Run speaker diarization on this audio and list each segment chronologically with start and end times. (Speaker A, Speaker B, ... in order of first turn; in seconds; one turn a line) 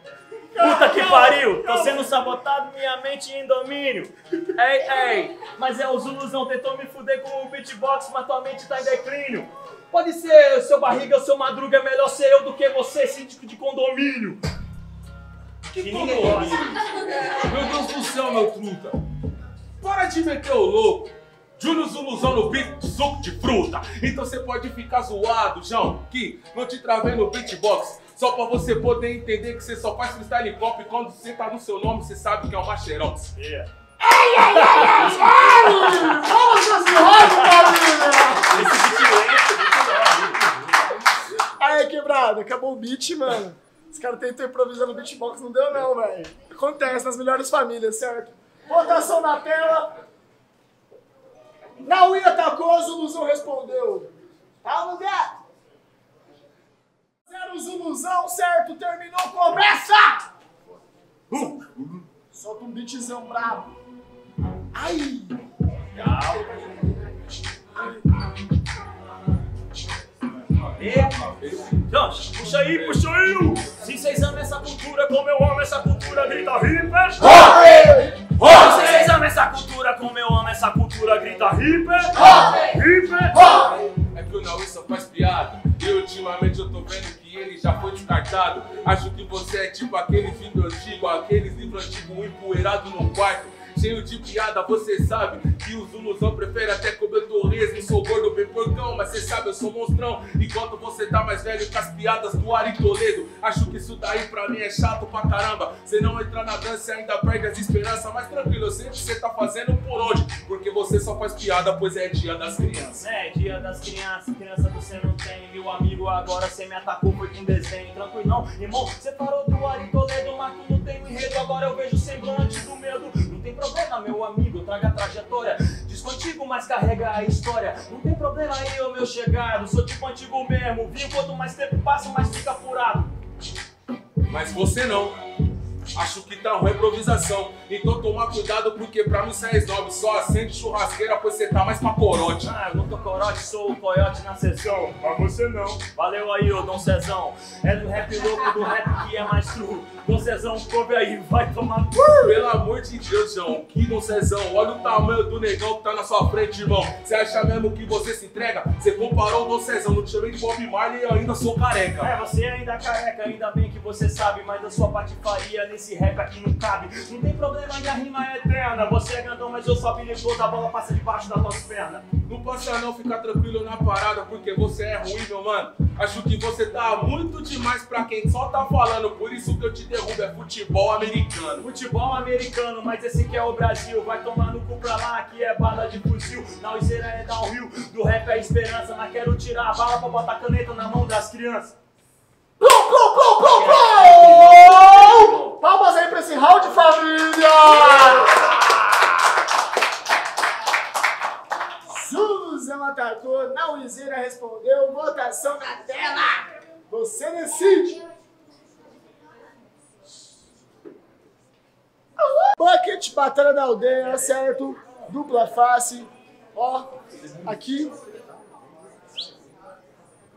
Speaker A: 0.5-2.1
Speaker B: 0.6-14.4
Speaker C: 15.7-19.0
Speaker B: 15.8-16.7
Speaker C: 19.8-33.3
Speaker B: 33.4-33.7
Speaker A: 34.0-38.8
Speaker B: 34.5-36.2
Speaker B: 37.1-40.5
Speaker A: 41.6-49.9
Speaker A: 51.8-54.1
Speaker A: 54.6-55.4
Speaker A: 57.3-60.2
Speaker C: 61.3-62.0
Speaker A: 62.3-63.7
Speaker A: 64.7-65.3
Speaker B: 65.9-66.5
Speaker B: 70.8-71.2
Speaker C: 71.4-71.8
Speaker B: 71.9-83.7
Speaker C: 83.9-113.0
Speaker B: 113.0-133.1
Speaker C: 134.3-135.2
Speaker C: 135.9-142.5
Speaker B: 142.4-152.3
Speaker C: 152.2-162.1
Speaker B: 162.0-172.1
Speaker C: 172.2-181.7
Speaker B: 181.6-191.8
Speaker A: 192.6-198.4
Speaker B: 193.3-195.6
Speaker A: 201.9-208.0
Speaker A: 212.3-216.9
Speaker A: 217.4-217.9